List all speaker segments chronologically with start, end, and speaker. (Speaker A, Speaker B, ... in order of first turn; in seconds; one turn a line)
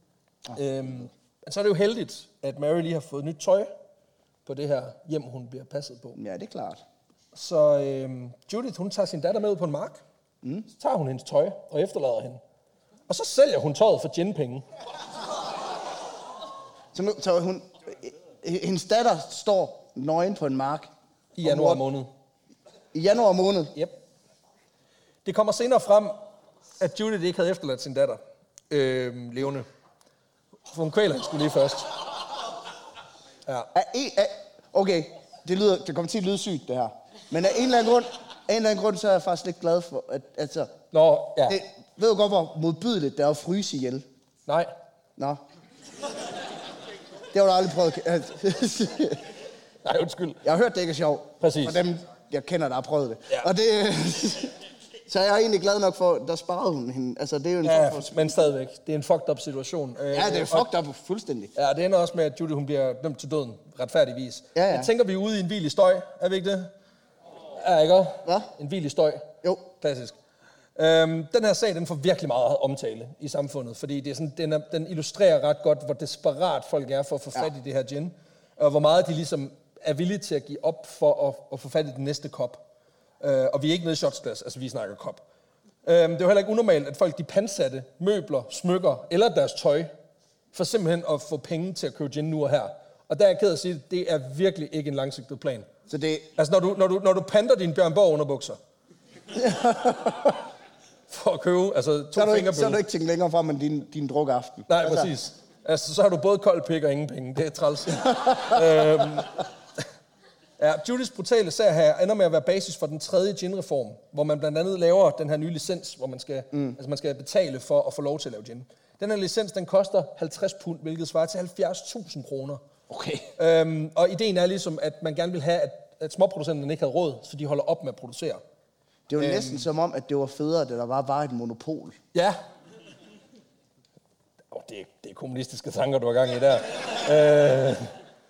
Speaker A: 0.5-3.7
Speaker A: 4.5-6.2
Speaker B: 6.2-6.8
Speaker A: 7.3-10.0
Speaker A: 10.8-12.4
Speaker A: 13.1-14.7
Speaker B: 16.9-20.9
Speaker A: 21.4-22.1
Speaker B: 21.4-21.8
Speaker B: 22.9-23.7
Speaker A: 25.2-26.2
Speaker A: 26.8-29.7
Speaker A: 30.7-31.9
Speaker B: 33.7-40.7
Speaker A: 40.9-41.6
Speaker B: 41.5-44.0
Speaker B: 47.3-49.2
Speaker A: 49.8-50.4
Speaker B: 50.4-54.6
Speaker A: 51.4-51.8
Speaker B: 55.1-58.4
Speaker A: 57.6-60.7
Speaker B: 60.1-61.5
Speaker A: 61.6-66.7
Speaker B: 64.5-64.9
Speaker A: 67.6-70.2
Speaker A: 70.8-82.6
Speaker A: 83.2-85.2
Speaker A: 85.8-89.9
Speaker A: 90.5-95.7
Speaker B: 95.9-96.3
Speaker A: 96.4-98.6
Speaker B: 99.3-100.4
Speaker A: 101.1-102.8
Speaker B: 102.2-105.1
Speaker A: 104.7-109.4
Speaker A: 110.6-122.6
Speaker B: 122.9-123.3
Speaker A: 123.4-128.4
Speaker B: 129.1-132.0
Speaker A: 129.2-129.7
Speaker A: 132.1-132.4
Speaker A: 134.5-137.9